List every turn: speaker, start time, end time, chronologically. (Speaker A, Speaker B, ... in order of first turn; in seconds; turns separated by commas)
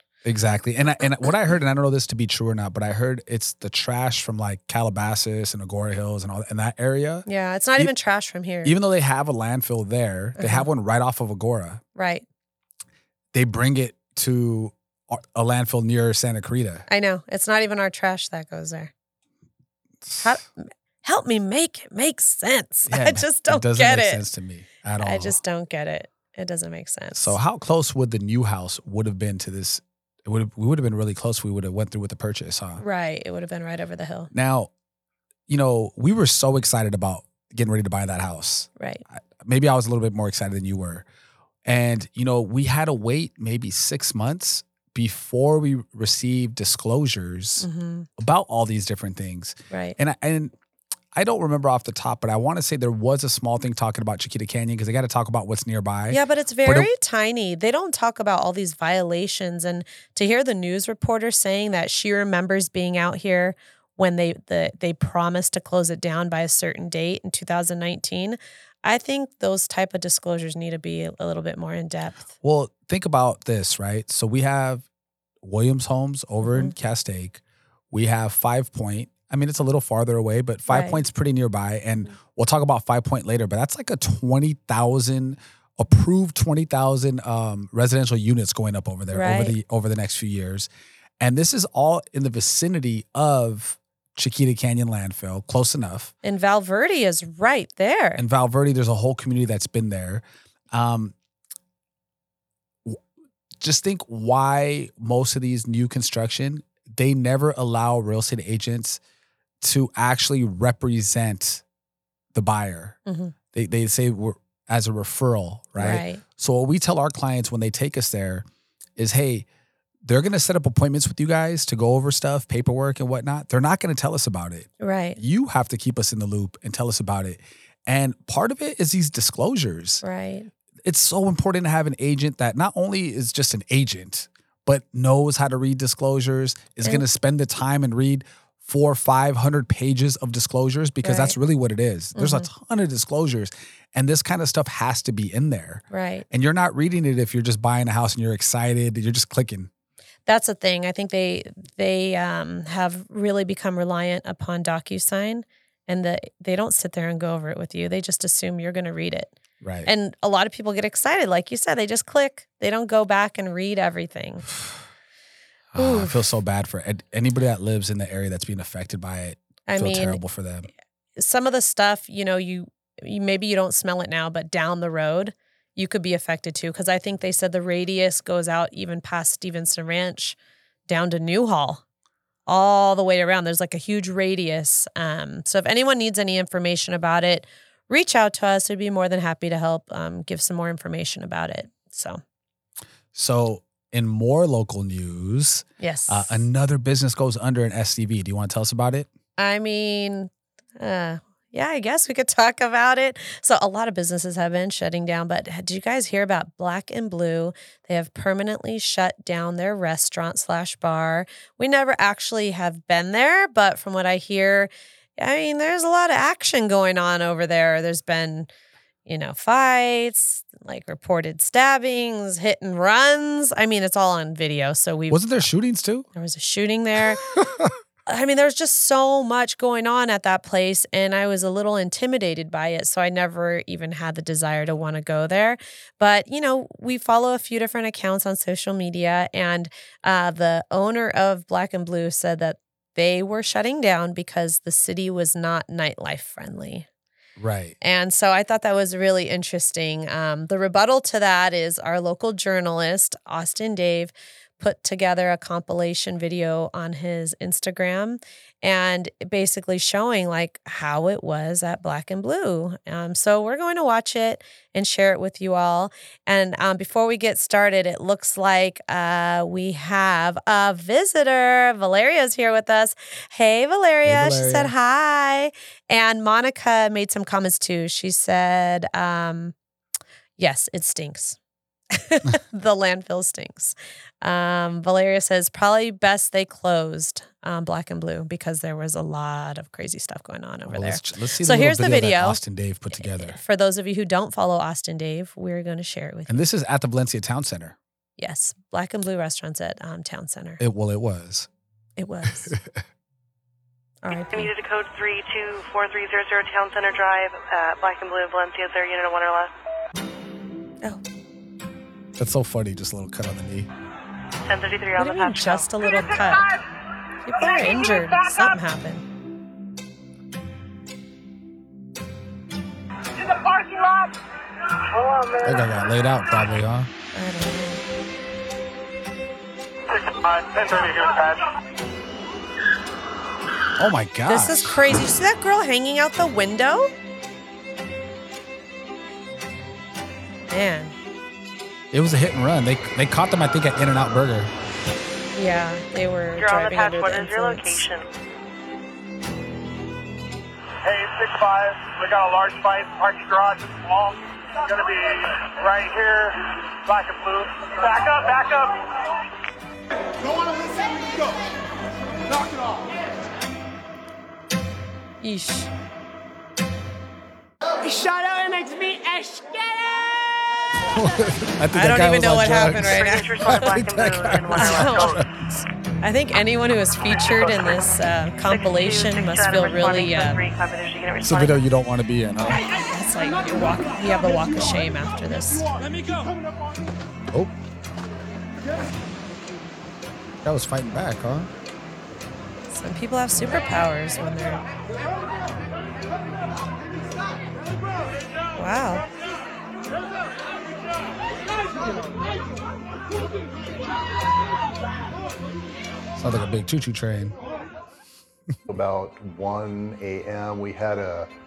Speaker A: 0.2-7.2, Speaker B: 7.2-8.7, Speaker A: 8.6-11.8, Speaker B: 10.4-10.7, Speaker B: 11.9-12.2, Speaker A: 13.3-16.9, Speaker B: 16.9-18.9, Speaker A: 20.0-20.4, Speaker B: 20.2-20.5, Speaker B: 21.0-24.2, Speaker A: 22.9-25.4, Speaker B: 25.0-27.4, Speaker A: 27.1-32.8, Speaker B: 32.8-34.3, Speaker A: 34.3-34.7, Speaker A: 35.5-41.0, Speaker B: 38.8-39.0, Speaker A: 41.6-47.7, Speaker B: 47.6-48.1, Speaker A: 48.2-50.5, Speaker B: 49.7-50.0, Speaker A: 51.1-56.9, Speaker B: 56.1-72.3, Speaker A: 72.4-74.8, Speaker A: 75.4-77.4, Speaker B: 76.4-76.7, Speaker A: 77.9-90.7, Speaker B: 80.7-81.0, Speaker B: 89.1-89.5, Speaker A: 91.2-96.1, Speaker B: 96.2-98.2, Speaker A: 98.2-101.1, Speaker A: 103.6-109.0, Speaker A: 109.6-111.6, Speaker A: 112.3-113.0, Speaker B: 113.0-113.3, Speaker A: 113.5-118.4, Speaker B: 115.8-116.2, Speaker A: 119.0-119.5, Speaker A: 120.0-130.0, Speaker B: 124.8-125.2, Speaker B: 130.0-130.5, Speaker A: 130.8-149.7, Speaker B: 141.0-141.4, Speaker B: 142.2-142.5, Speaker B: 145.9-146.2, Speaker B: 150.2-159.3, Speaker A: 159.6-159.9, Speaker B: 159.8-164.5, Speaker A: 165.7-170.7, Speaker B: 165.8-166.2, Speaker B: 169.7-170.2, Speaker B: 171.2-180.3, Speaker B: 180.9-181.8, Speaker B: 182.5-192.2, Speaker A: 193.1-199.1, Speaker B: 195.8-196.5, Speaker B: 199.4-218.5, Speaker B: 219.1-225.2, Speaker A: 225.1-226.1, Speaker B: 226.1-227.3, Speaker A: 227.3-227.7, Speaker B: 228.1-246.9, Speaker A: 247.4-247.8, Speaker B: 247.8-279.5, Speaker A: 274.0-274.7, Speaker B: 280.4-281.4, Speaker B: 281.9-292.4, Speaker A: 290.7-293.4, Speaker B: 292.9-296.4, Speaker A: 296.3-297.8, Speaker B: 298.2-300.6, Speaker A: 300.6-301.5, Speaker B: 302.0-302.5, Speaker A: 302.3-302.8, Speaker B: 304.0-304.5, Speaker C: 304.1-309.5, Speaker A: 312.2-313.7, Speaker C: 314.4-315.7, Speaker B: 314.9-316.5, Speaker B: 317.2-319.0, Speaker D: 323.4-324.1, Speaker D: 324.9-325.4, Speaker A: 325.4-326.9, Speaker B: 327.1-327.8, Speaker D: 329.9-331.5, Speaker A: 333.8-334.9, Speaker B: 334.3-336.9, Speaker B: 340.5-340.9, Speaker A: 341.9-344.5, Speaker B: 345.4-347.8, Speaker C: 346.4-348.1, Speaker D: 350.8-358.9, Speaker B: 365.2-365.7, Speaker A: 370.9-375.5, Speaker B: 371.7-373.7, Speaker C: 372.8-375.2, Speaker B: 374.5-375.2, Speaker B: 376.0-380.4, Speaker C: 378.4-381.6, Speaker A: 381.2-382.6, Speaker B: 382.7-385.7, Speaker A: 390.4-391.5, Speaker B: 392.7-394.6, Speaker B: 398.5-399.1, Speaker A: 406.1-407.4, Speaker E: 408.7-411.3